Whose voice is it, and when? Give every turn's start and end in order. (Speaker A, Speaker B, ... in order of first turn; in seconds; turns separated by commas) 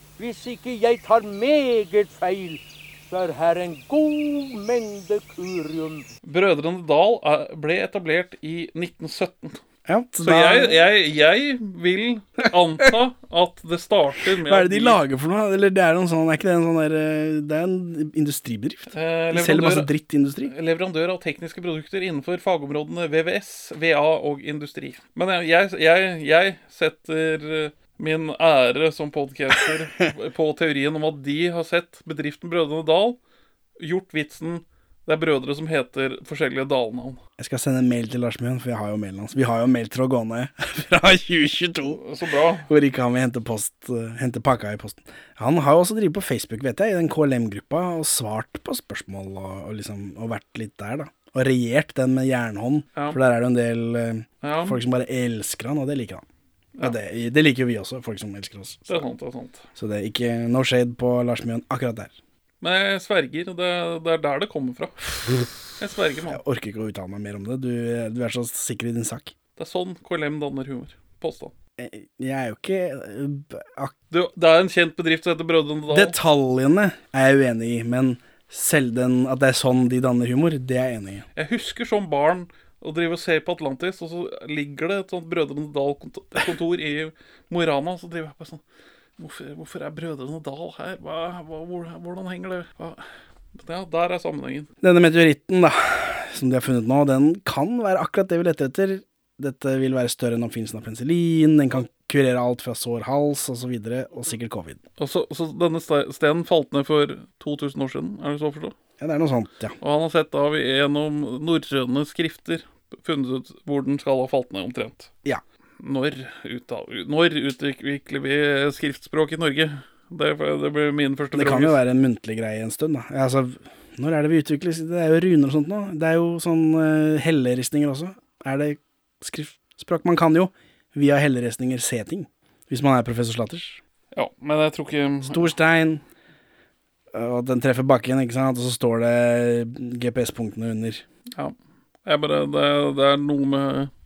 Speaker A: 0.2-6.1, Speaker B: 6.2-9.6, Speaker C: 9.9-10.8, Speaker B: 10.2-15.0, Speaker C: 14.5-20.5, Speaker B: 18.9-19.9, Speaker B: 20.4-33.2, Speaker B: 33.8-37.2, Speaker C: 37.4-42.0, Speaker B: 41.9-42.7, Speaker C: 42.7-56.2, Speaker B: 54.4-54.8, Speaker C: 56.8-59.1, Speaker B: 58.9-59.6, Speaker C: 59.8-62.1, Speaker B: 62.6-66.4, Speaker C: 66.3-69.3, Speaker B: 69.6-71.5, Speaker C: 71.8-73.9, Speaker B: 74.1-76.2, Speaker C: 75.9-81.3, Speaker B: 81.4-88.6, Speaker B: 89.2-94.7, Speaker C: 94.8-104.8, Speaker B: 105.0-108.8, Speaker C: 109.0-109.8, Speaker B: 109.8-115.1, Speaker B: 115.8-121.8, Speaker C: 121.3-133.8, Speaker B: 134.1-135.5, Speaker C: 135.2-136.0, Speaker C: 137.1-141.0, Speaker B: 141.3-143.9